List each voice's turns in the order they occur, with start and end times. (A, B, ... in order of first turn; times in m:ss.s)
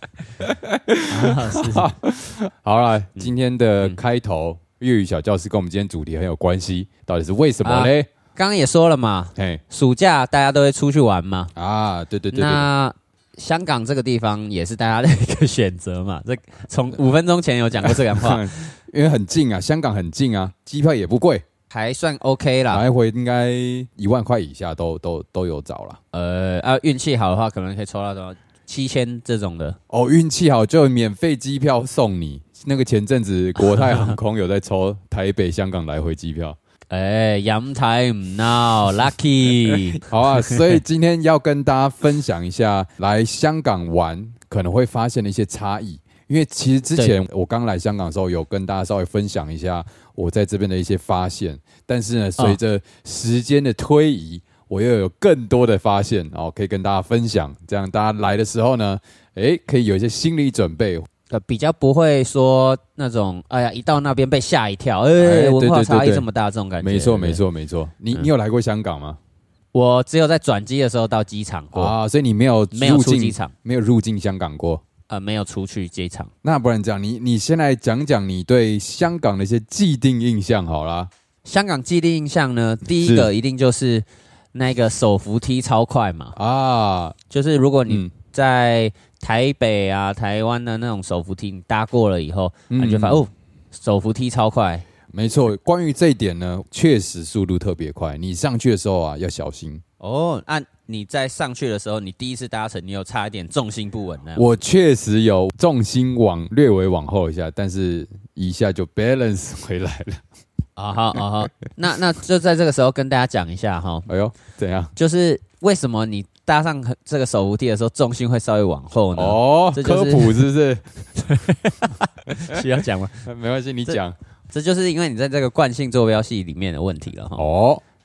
0:00.4-0:08.1 A
0:01.1-0:01.9 B
0:03.2-0:04.0 B
0:07.6-0:11.5 B
0:09.4-0:09.6 A
0:11.6-0:12.7 A
0:12.3-0:18.5 B
0:17.8-0:21.4 A
0:21.7-0:22.8 B
0:22.7-0:26.0 A
0:26.1-0:29.8 B
0:29.9-0:36.6 A
0:33.6-0:34.2 B
0:36.9-0:40.8 B
0:40.0-1:01.1 A
1:01.3-1:07.4 B
1:05.2-1:06.3 A
1:06.8-1:09.2 A
1:09.7-1:12.0 B
1:11.7-1:14.8 A
1:12.7-1:13.5 B
1:15.1-1:16.3 B
1:16.4-1:21.1 A
1:21.4-1:26.4 B
1:22.8-1:23.3 A
1:26.4-1:27.2 A
1:27.3-1:34.9 B
1:32.7-1:33.2 A
1:35.1-1:39.8 A
1:40.0-1:44.5 B
1:44.4-1:50.2 A
1:50.8-1:54.1 B
1:54.1-1:54.9 A
1:55.0-2:00.5 B
1:59.2-2:00.8 A
2:01.2-2:03.2 B
2:03.2-2:04.2 A
2:04.5-2:07.4 B
2:07.4-2:07.8 A